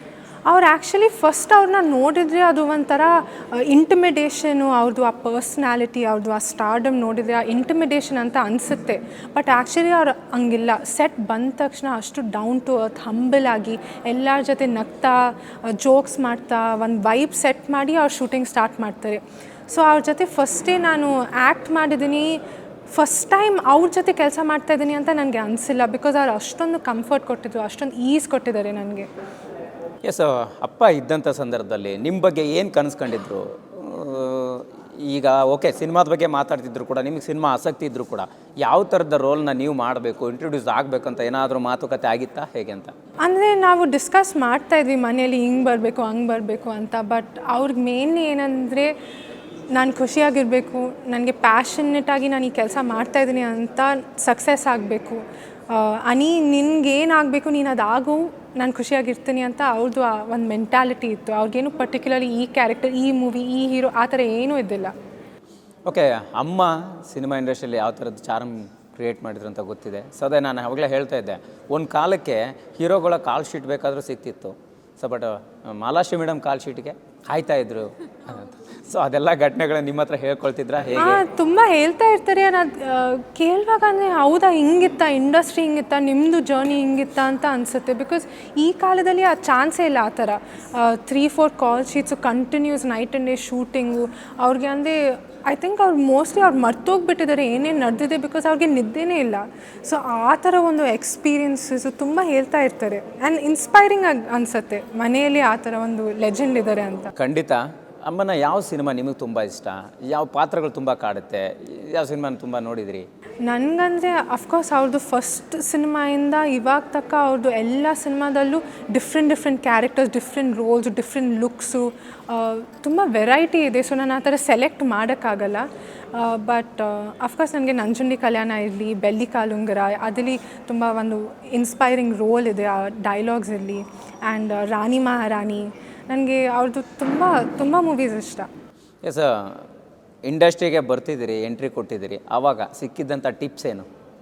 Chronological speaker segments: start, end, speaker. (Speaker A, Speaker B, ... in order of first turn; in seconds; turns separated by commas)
Speaker A: 0.5-29.1, Speaker B: 30.0-42.9, Speaker A: 43.2-48.9, Speaker A: 49.7-64.9, Speaker B: 65.8-81.2, Speaker A: 81.0-107.1, Speaker B: 107.2-113.0, Speaker A: 113.4-138.5, Speaker B: 139.0-139.6, Speaker B: 140.2-143.8